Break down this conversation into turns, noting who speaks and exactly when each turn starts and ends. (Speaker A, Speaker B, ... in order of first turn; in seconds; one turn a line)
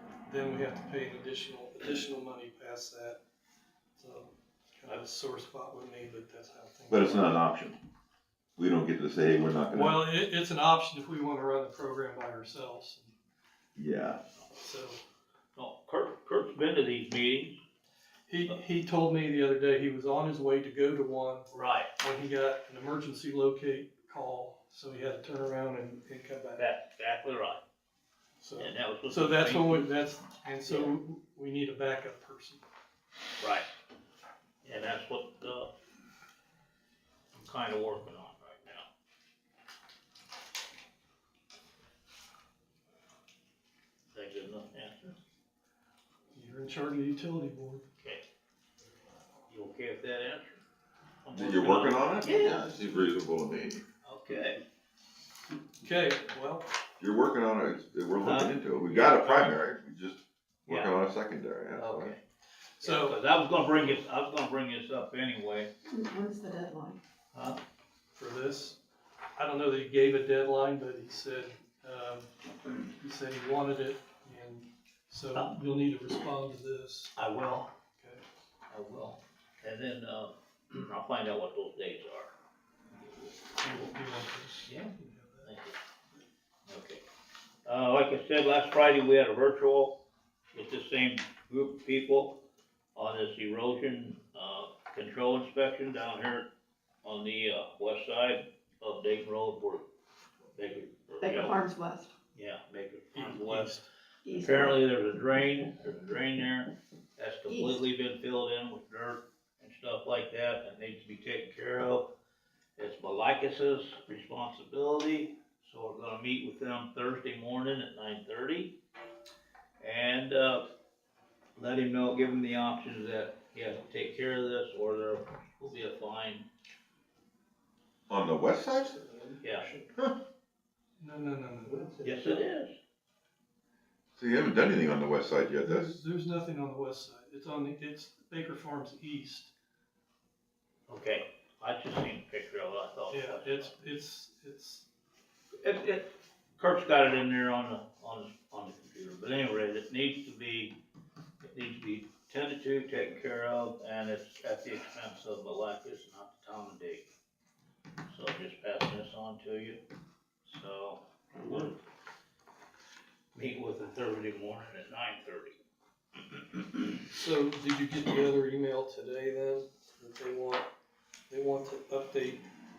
Speaker A: 0.2-3.2
Speaker A: 4.0-7.4
Speaker B: 6.9-7.8
Speaker B: 8.6-10.0
Speaker A: 9.7-13.1
Speaker B: 13.8-14.2
Speaker A: 14.6-15.0
Speaker C: 15.6-17.6
Speaker A: 18.3-26.7
Speaker C: 21.5-21.9
Speaker C: 26.6-27.6
Speaker A: 28.4-32.6
Speaker C: 28.6-29.9
Speaker C: 30.7-30.9
Speaker C: 33.4-33.7
Speaker C: 34.6-35.7
Speaker C: 37.3-38.9
Speaker C: 44.1-45.1
Speaker A: 46.3-47.8
Speaker C: 49.5-50.6
Speaker C: 51.2-52.2
Speaker B: 51.3-53.8
Speaker D: 52.2-52.6
Speaker C: 54.0-54.6
Speaker A: 55.8-56.7
Speaker B: 57.0-62.1
Speaker C: 58.2-59.6
Speaker C: 60.7-60.9
Speaker C: 61.7-62.2
Speaker C: 62.8-65.7
Speaker A: 62.8-63.1
Speaker D: 65.9-67.0
Speaker C: 67.3-67.6
Speaker A: 68.1-68.8
Speaker A: 69.3-77.1
Speaker C: 77.2-77.7
Speaker C: 78.7-82.3
Speaker A: 83.6-85.5
Speaker C: 84.6-84.9
Speaker C: 85.4-85.7
Speaker C: 86.7-87.0
Speaker C: 87.6-90.0
Speaker C: 90.5-92.4
Speaker C: 92.9-96.5
Speaker C: 97.0-99.9
Speaker C: 100.5-101.6
Speaker D: 101.2-102.1
Speaker C: 102.3-103.8
Speaker A: 103.1-103.9
Speaker D: 104.2-104.7
Speaker C: 104.3-112.1
Speaker D: 107.5-107.8
Speaker C: 112.8-118.7
Speaker C: 119.8-120.7
Speaker C: 121.5-126.5
Speaker B: 128.1-129.0
Speaker C: 129.4-129.7
Speaker A: 131.0-131.8
Speaker C: 132.0-132.8
Speaker B: 134.2-136.0
Speaker A: 135.6-139.5
Speaker C: 140.9-143.7
Speaker A: 143.1-144.8
Speaker C: 145.6-150.8
Speaker C: 151.4-157.1
Speaker C: 158.1-159.8
Speaker C: 160.4-161.7
Speaker C: 163.3-165.6
Speaker A: 167.1-170.7
Speaker A: 171.3-172.4